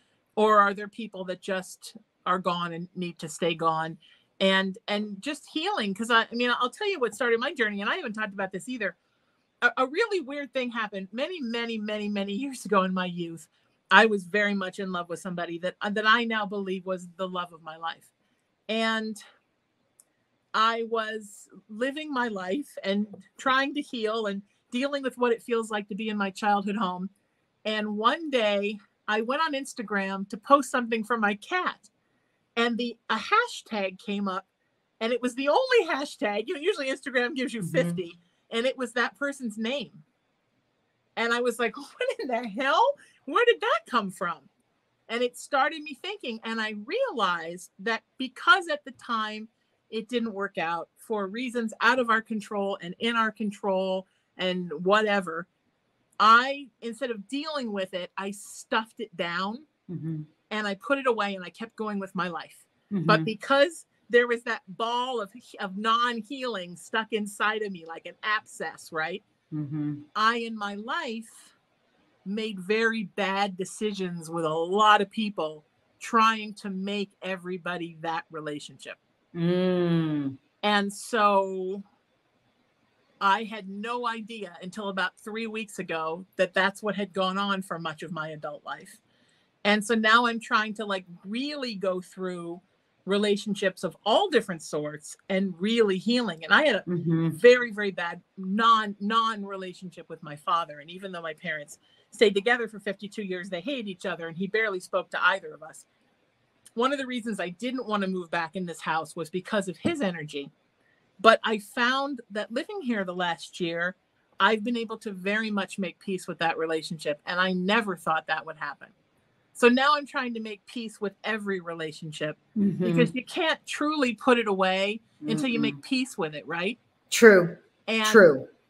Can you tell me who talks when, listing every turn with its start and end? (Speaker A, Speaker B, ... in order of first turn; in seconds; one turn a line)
Speaker A: 0.4-9.0
Speaker A: 9.6-18.1
Speaker A: 18.7-19.2
Speaker A: 20.5-27.1
Speaker A: 27.6-31.9
Speaker A: 32.6-34.5
Speaker A: 35.0-40.0
Speaker B: 37.6-38.0
Speaker A: 41.2-44.5
Speaker A: 45.1-55.5
Speaker A: 56.2-59.7
Speaker B: 59.9-60.3
Speaker A: 60.5-69.2
Speaker B: 62.9-63.3
Speaker B: 69.5-70.0
Speaker A: 70.2-71.5
Speaker A: 72.2-79.0
Speaker B: 79.3-80.4
Speaker A: 80.6-81.8
Speaker A: 83.2-89.0
Speaker A: 89.6-105.9
Speaker B: 96.9-97.4
Speaker A: 106.8-110.5
Speaker A: 111.2-118.9
Speaker A: 119.5-126.8
Speaker B: 122.6-123.1
Speaker B: 125.2-125.8
Speaker B: 127.1-128.5
Speaker A: 127.9-128.3